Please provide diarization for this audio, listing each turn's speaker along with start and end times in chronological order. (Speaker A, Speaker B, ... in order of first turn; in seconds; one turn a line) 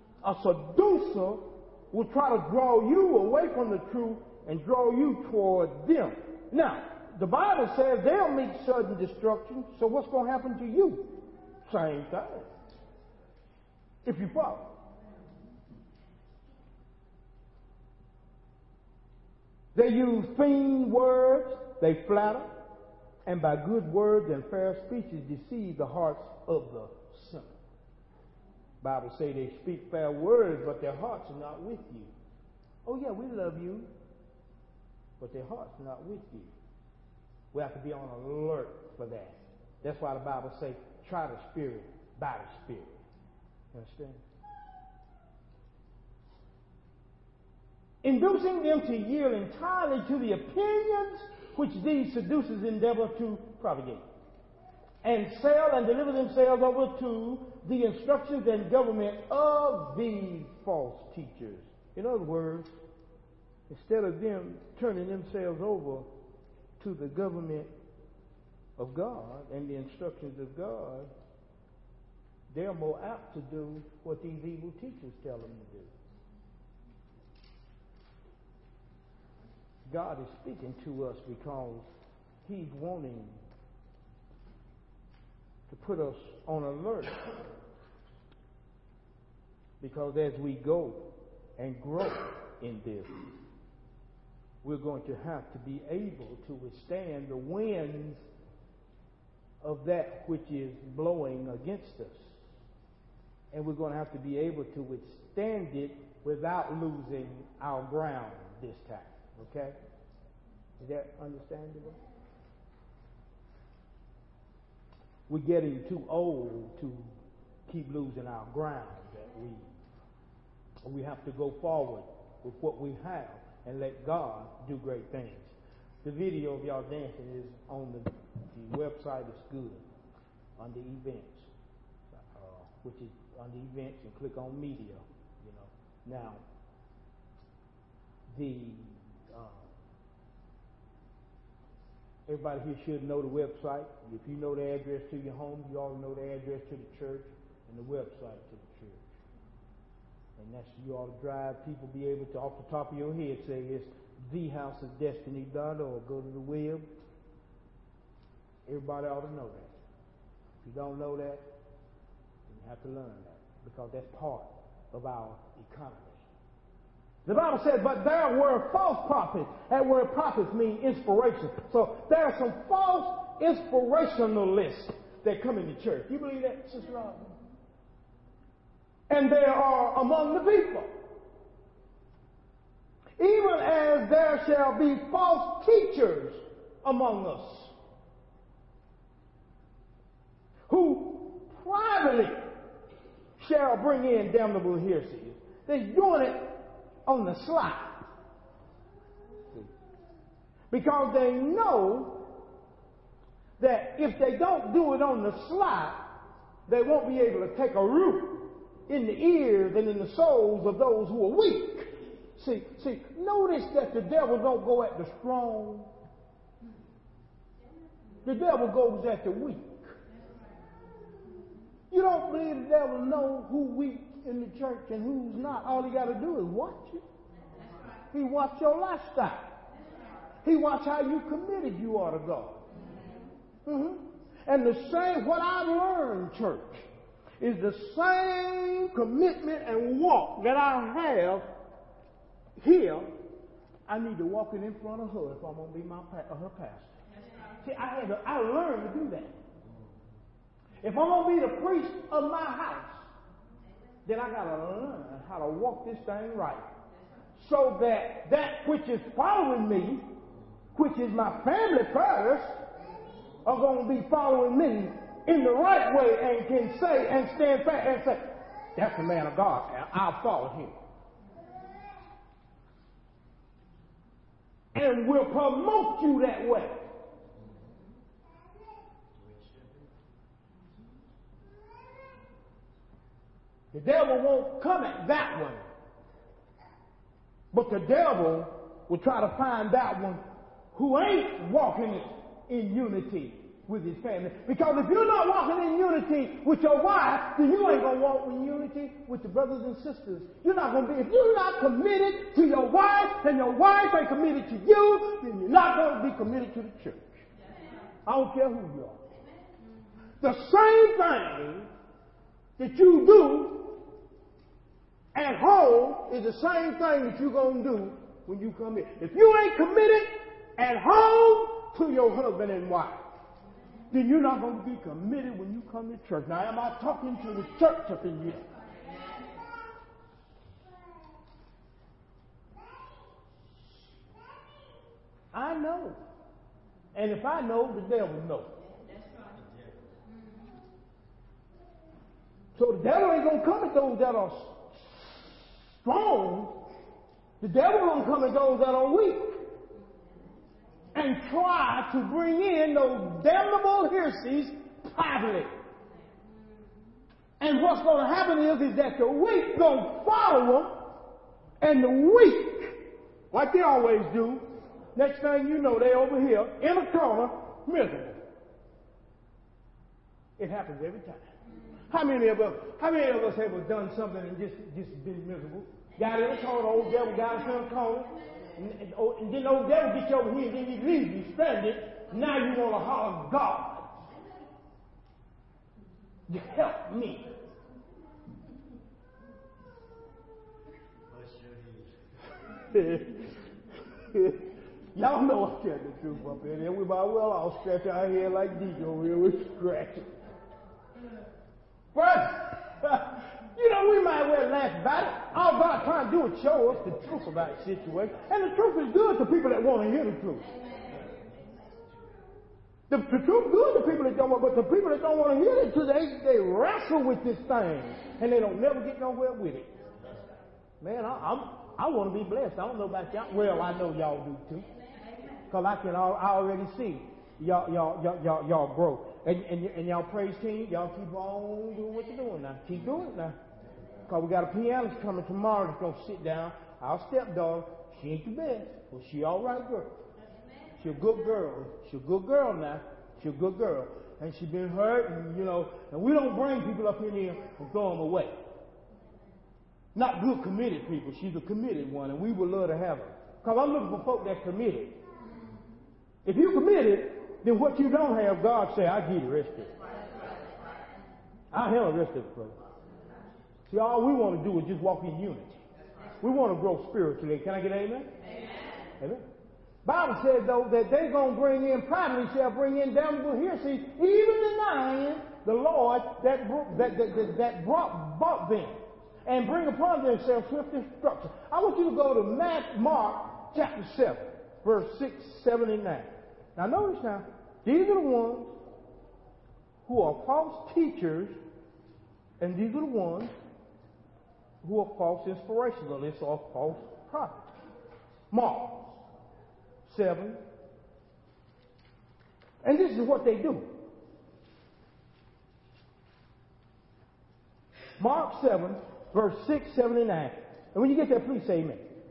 Speaker A: 0.2-11.1
Speaker A: 11.7-12.5
Speaker A: 14.1-14.7
Speaker A: 19.8-22.5
Speaker A: 23.3-27.6
Speaker A: 28.8-32.1
Speaker A: 32.9-33.9
Speaker A: 35.2-36.5
Speaker A: 37.5-43.0
Speaker A: 43.7-44.2
Speaker A: 48.0-54.0
Speaker A: 55.0-62.7
Speaker A: 63.7-66.1
Speaker A: 66.8-67.7
Speaker A: 68.8-71.1
Speaker A: 72.5-75.9
Speaker A: 79.9-81.9
Speaker A: 82.5-83.4
Speaker A: 85.7-87.3
Speaker A: 89.8-93.2
Speaker A: 94.6-98.2
Speaker A: 99.6-102.3
Speaker A: 103.5-109.8
Speaker A: 110.8-112.0
Speaker A: 115.3-117.1
Speaker A: 117.7-119.7
Speaker A: 120.8-129.8
Speaker A: 130.6-131.5
Speaker A: 132.2-136.4
Speaker A: 138.3-139.7
Speaker A: 142.3-149.1
Speaker A: 150.4-156.9
Speaker A: 158.7-159.7
Speaker A: 160.6-161.4
Speaker A: 162.5-166.2
Speaker A: 167.3-177.3
Speaker A: 179.1-180.9
Speaker A: 183.2-187.7
Speaker A: 190.7-192.4
Speaker A: 193.4-198.1
Speaker A: 200.7-202.3
Speaker A: 203.6-206.1
Speaker A: 206.7-215.9
Speaker A: 218.2-219.9
Speaker A: 221.9-227.0
Speaker A: 228.1-229.6
Speaker A: 230.4-232.7
Speaker A: 233.7-236.8
Speaker A: 237.4-241.5
Speaker A: 242.6-243.1
Speaker A: 243.9-246.9
Speaker A: 247.6-249.4
Speaker A: 250.8-253.0
Speaker A: 254.1-256.7
Speaker A: 257.4-260.1
Speaker A: 260.8-262.6
Speaker A: 263.4-270.8
Speaker A: 274.7-276.8
Speaker A: 283.7-285.7
Speaker A: 287.5-307.1
Speaker A: 308.1-309.0
Speaker A: 310.2-311.7
Speaker A: 312.6-313.8
Speaker A: 315.1-323.0
Speaker A: 323.9-328.5
Speaker A: 335.3-336.0
Speaker A: 336.9-338.6
Speaker A: 342.6-346.6
Speaker A: 347.4-349.4
Speaker A: 350.9-355.5
Speaker A: 357.4-360.9
Speaker A: 361.6-362.8
Speaker A: 363.3-364.4
Speaker A: 364.9-368.2
Speaker A: 370.4-371.3
Speaker A: 371.9-383.9
Speaker A: 386.3-387.3
Speaker A: 392.6-393.3
Speaker A: 394.0-400.1
Speaker A: 401.9-410.5
Speaker A: 412.9-419.8
Speaker A: 420.8-424.7
Speaker A: 425.5-433.4
Speaker A: 434.1-439.9
Speaker A: 440.8-448.4
Speaker A: 449.9-455.0
Speaker A: 456.2-459.8
Speaker A: 461.5-462.6
Speaker A: 463.7-465.6
Speaker A: 466.2-468.2
Speaker A: 469.0-469.3
Speaker A: 469.8-488.5
Speaker A: 489.9-491.4
Speaker A: 492.4-493.3
Speaker A: 494.6-497.5
Speaker A: 498.3-499.0
Speaker A: 499.9-500.4
Speaker A: 502.6-503.8
Speaker A: 508.0-511.8